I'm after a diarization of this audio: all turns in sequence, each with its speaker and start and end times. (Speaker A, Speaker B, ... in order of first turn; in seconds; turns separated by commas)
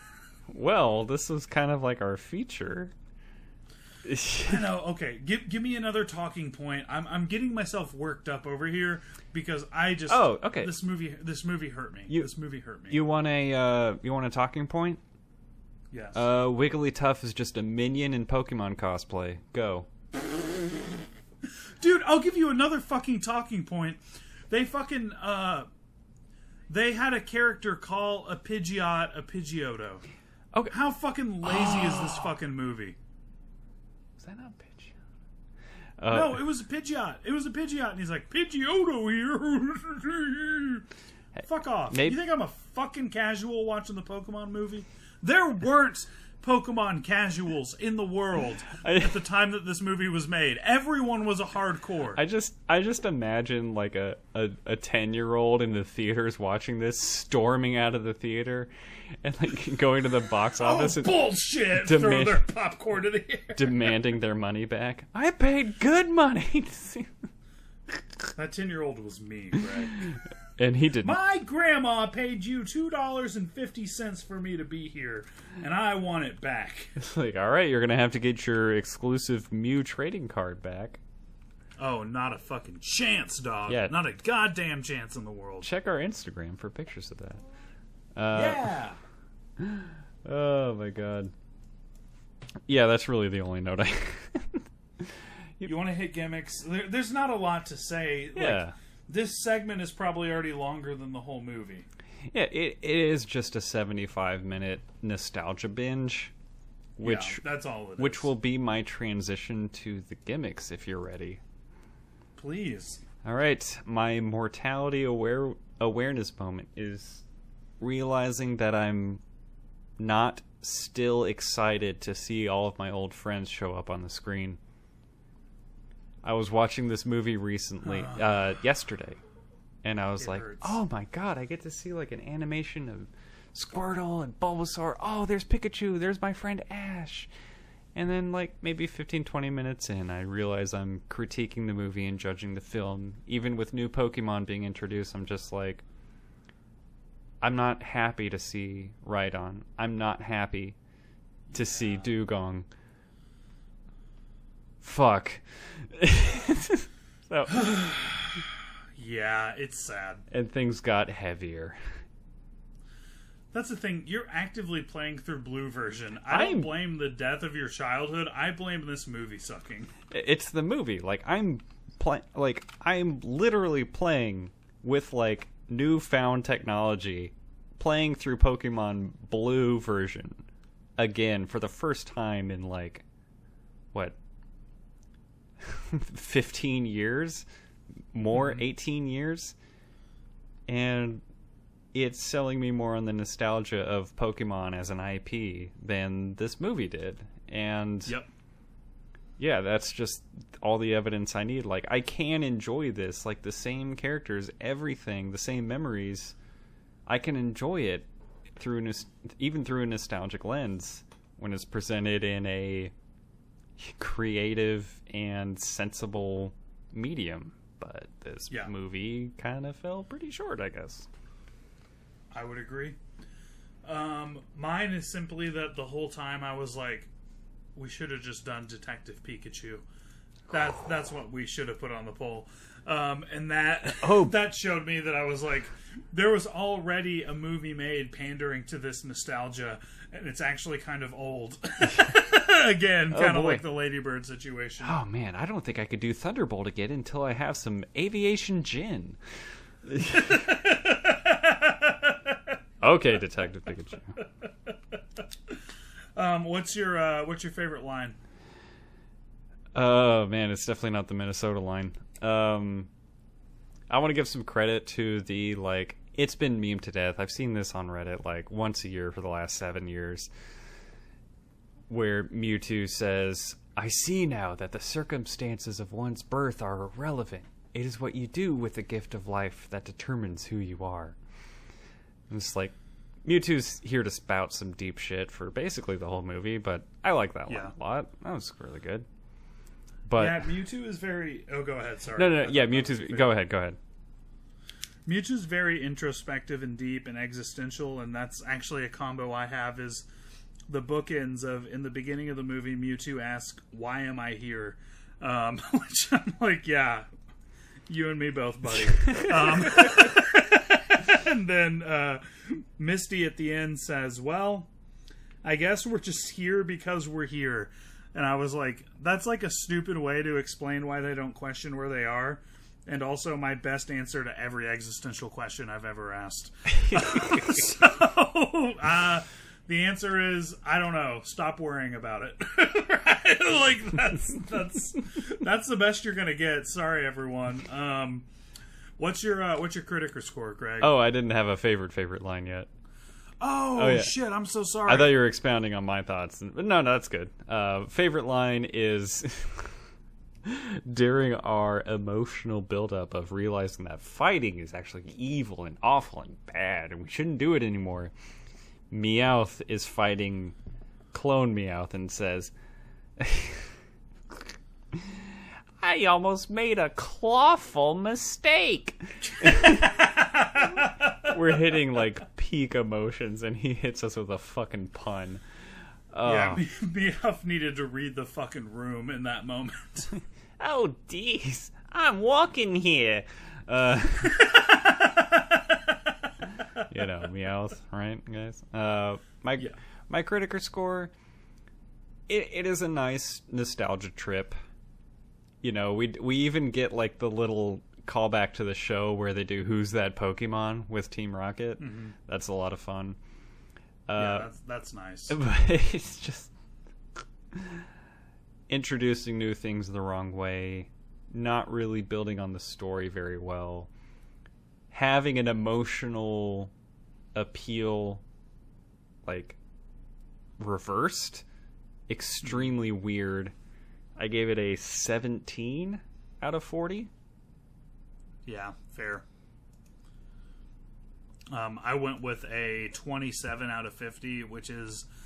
Speaker A: 0.5-2.9, Speaker A: 4.0-4.6, Speaker B: 4.5-13.0, Speaker A: 10.1-10.7, Speaker A: 12.9-15.0, Speaker B: 15.9-16.2, Speaker A: 16.1-19.9, Speaker B: 21.8-25.7, Speaker B: 26.7-30.0, Speaker B: 30.7-33.0, Speaker A: 31.4-32.2, Speaker A: 34.2-34.9, Speaker A: 36.0-36.4, Speaker B: 36.1-40.8, Speaker A: 41.3-42.2, Speaker B: 41.5-52.2, Speaker A: 48.8-49.2, Speaker A: 52.1-58.7, Speaker A: 59.2-62.4, Speaker B: 60.6-63.9, Speaker A: 63.5-67.1, Speaker B: 68.3-70.1, Speaker A: 70.0-71.2, Speaker B: 71.0-76.9, Speaker A: 77.0-81.0, Speaker B: 81.8-85.7, Speaker A: 83.7-84.0, Speaker A: 85.6-87.4, Speaker A: 88.2-88.7, Speaker B: 88.3-89.0, Speaker A: 89.6-91.3, Speaker A: 92.7-95.7, Speaker B: 95.6-101.9, Speaker A: 98.3-98.7, Speaker A: 102.3-106.3, Speaker A: 107.0-107.4, Speaker B: 107.0-108.3, Speaker A: 108.0-111.4, Speaker B: 112.3-113.0, Speaker A: 113.2-117.2, Speaker A: 117.8-119.2, Speaker A: 120.0-124.6, Speaker A: 126.2-129.2, Speaker B: 127.8-128.3, Speaker A: 129.8-137.3, Speaker B: 130.2-130.8, Speaker A: 137.9-145.8, Speaker A: 147.4-150.8, Speaker B: 151.5-152.1, Speaker A: 151.5-152.7, Speaker A: 154.8-157.7, Speaker B: 157.5-160.2, Speaker A: 160.3-161.8, Speaker B: 163.5-169.9, Speaker A: 166.3-166.8, Speaker A: 170.1-180.4, Speaker A: 181.0-183.0, Speaker A: 185.6-187.4, Speaker A: 188.1-189.5, Speaker B: 188.3-188.6, Speaker A: 190.7-191.2, Speaker A: 191.9-198.2, Speaker A: 199.4-206.3, Speaker A: 207.1-212.9, Speaker A: 213.8-221.1, Speaker B: 222.3-223.0, Speaker B: 223.8-227.1, Speaker B: 227.7-229.8, Speaker B: 230.5-245.0, Speaker A: 233.9-234.3, Speaker A: 243.1-243.6, Speaker A: 244.8-250.4, Speaker B: 250.1-252.5, Speaker A: 252.8-254.2, Speaker B: 254.2-254.8, Speaker B: 256.1-258.2, Speaker A: 259.7-262.9, Speaker A: 263.9-270.3, Speaker A: 271.9-281.2, Speaker A: 282.3-289.1, Speaker B: 287.5-287.7, Speaker A: 290.1-290.5, Speaker B: 290.2-293.3, Speaker A: 292.1-293.8, Speaker B: 295.1-300.1, Speaker B: 300.7-307.1, Speaker B: 307.9-314.7, Speaker A: 309.0-309.3, Speaker B: 315.4-338.2, Speaker A: 326.9-327.3, Speaker B: 339.0-340.9, Speaker A: 340.8-342.7, Speaker B: 343.4-345.1, Speaker A: 343.8-344.1, Speaker A: 344.9-349.7, Speaker A: 350.4-358.1, Speaker A: 358.9-360.6, Speaker A: 361.1-362.5, Speaker A: 363.2-363.7, Speaker A: 364.9-365.2, Speaker A: 365.8-370.0, Speaker B: 369.4-371.4, Speaker A: 371.2-375.4, Speaker A: 376.1-376.6, Speaker B: 376.2-380.1, Speaker A: 380.6-384.6, Speaker B: 384.3-385.9, Speaker A: 386.8-391.1, Speaker A: 392.3-394.6, Speaker A: 395.6-403.2, Speaker B: 401.8-402.1, Speaker A: 404.1-404.5, Speaker B: 404.1-405.4, Speaker A: 405.3-406.5, Speaker A: 407.5-407.8, Speaker A: 408.7-413.9, Speaker A: 414.9-416.7, Speaker A: 417.3-418.2, Speaker A: 419.2-419.6, Speaker A: 420.6-421.4, Speaker A: 422.1-423.5, Speaker B: 422.4-422.7, Speaker A: 424.2-427.1, Speaker B: 428.4-429.2, Speaker B: 431.5-435.1